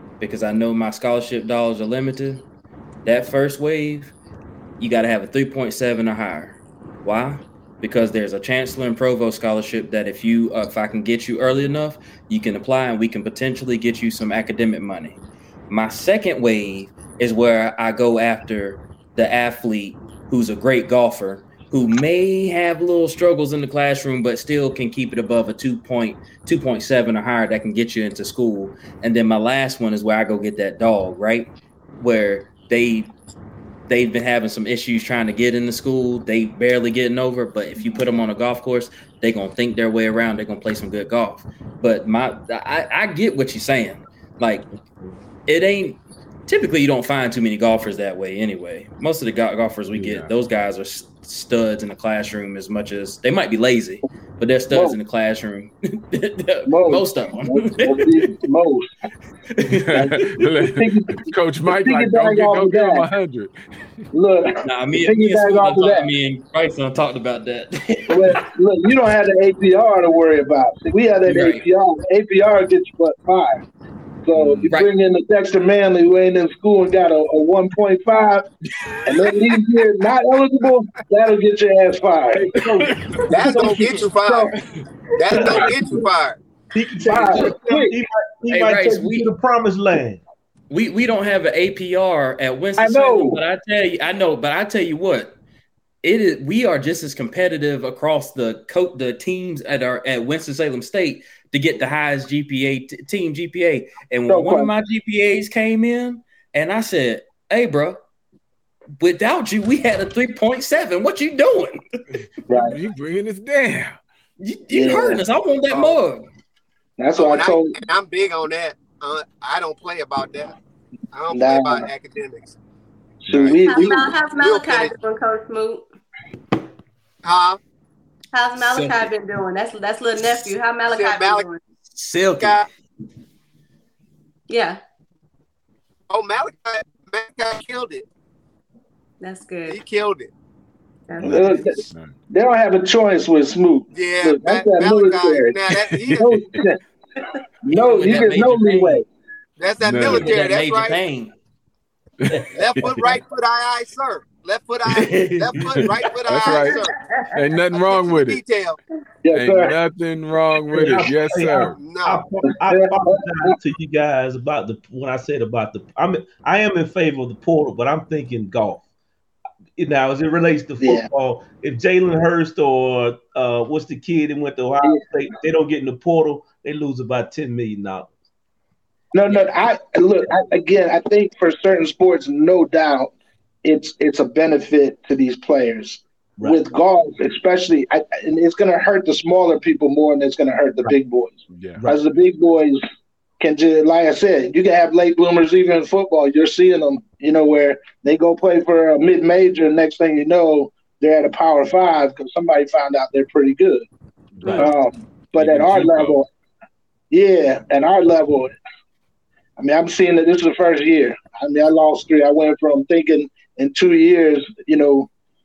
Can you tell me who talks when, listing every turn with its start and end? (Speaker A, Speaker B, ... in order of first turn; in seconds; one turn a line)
Speaker A: 0.2-2.5
Speaker A: 3.0-4.2
Speaker A: 4.8-33.1
Speaker A: 33.9-44.7
Speaker A: 45.5-58.4
Speaker B: 49.9-50.3
Speaker C: 54.7-55.0
Speaker C: 56.7-58.9
Speaker A: 59.5-60.4
Speaker B: 59.8-63.6
Speaker C: 60.0-63.1
Speaker C: 64.1-66.1
Speaker A: 64.6-68.5
Speaker C: 68.1-73.6
Speaker A: 71.2-71.7
Speaker C: 74.2-78.5
Speaker A: 74.3-74.9
Speaker C: 79.1-82.5
Speaker D: 82.4-83.2
Speaker E: 83.3-84.5
Speaker C: 83.4-84.5
Speaker E: 85.2-86.4
Speaker D: 85.3-86.0
Speaker D: 86.7-90.2
Speaker C: 87.0-88.0
Speaker A: 88.5-89.3
Speaker A: 90.7-95.4
Speaker C: 92.8-93.4
Speaker A: 96.0-108.0
Speaker C: 104.3-104.7
Speaker A: 109.0-111.8
Speaker C: 112.5-112.8
Speaker B: 112.5-114.0
Speaker A: 114.4-116.3
Speaker C: 114.7-115.2
Speaker E: 115.7-116.0
Speaker C: 117.0-117.8
Speaker E: 117.2-120.5
Speaker E: 121.1-122.5
Speaker C: 121.3-121.9
Speaker C: 123.2-124.0
Speaker B: 123.3-123.6
Speaker F: 123.6-125.8
Speaker E: 123.7-125.0
Speaker E: 127.2-127.6
Speaker F: 128.3-131.6
Speaker A: 128.6-129.1
Speaker E: 130.8-131.5
Speaker A: 132.0-132.7
Speaker E: 132.4-132.7
Speaker F: 134.5-134.8
Speaker E: 136.1-138.1
Speaker F: 139.2-139.8
Speaker E: 139.7-140.3
Speaker F: 141.1-141.6
Speaker B: 141.2-142.1
Speaker C: 141.2-145.6
Speaker E: 143.9-146.6
Speaker B: 145.8-146.6
Speaker C: 146.2-146.8
Speaker C: 147.6-149.1
Speaker A: 147.7-149.0
Speaker E: 149.6-151.0
Speaker B: 149.8-150.4
Speaker A: 150.0-151.3
Speaker B: 152.2-153.0
Speaker E: 152.5-157.0
Speaker A: 155.0-155.9
Speaker B: 155.0-156.8
Speaker B: 157.3-158.4
Speaker E: 157.7-158.8
Speaker C: 159.2-159.8
Speaker B: 159.3-161.8
Speaker D: 160.7-168.8
Speaker E: 161.7-162.3
Speaker C: 162.7-163.5
Speaker D: 169.8-178.1
Speaker C: 170.8-171.1
Speaker C: 179.1-183.1
Speaker C: 183.6-192.8
Speaker D: 186.4-186.7
Speaker B: 191.5-191.8
Speaker C: 193.4-203.9
Speaker B: 204.4-204.7
Speaker C: 204.6-206.3
Speaker B: 205.4-206.2
Speaker C: 207.1-208.6
Speaker C: 209.6-215.1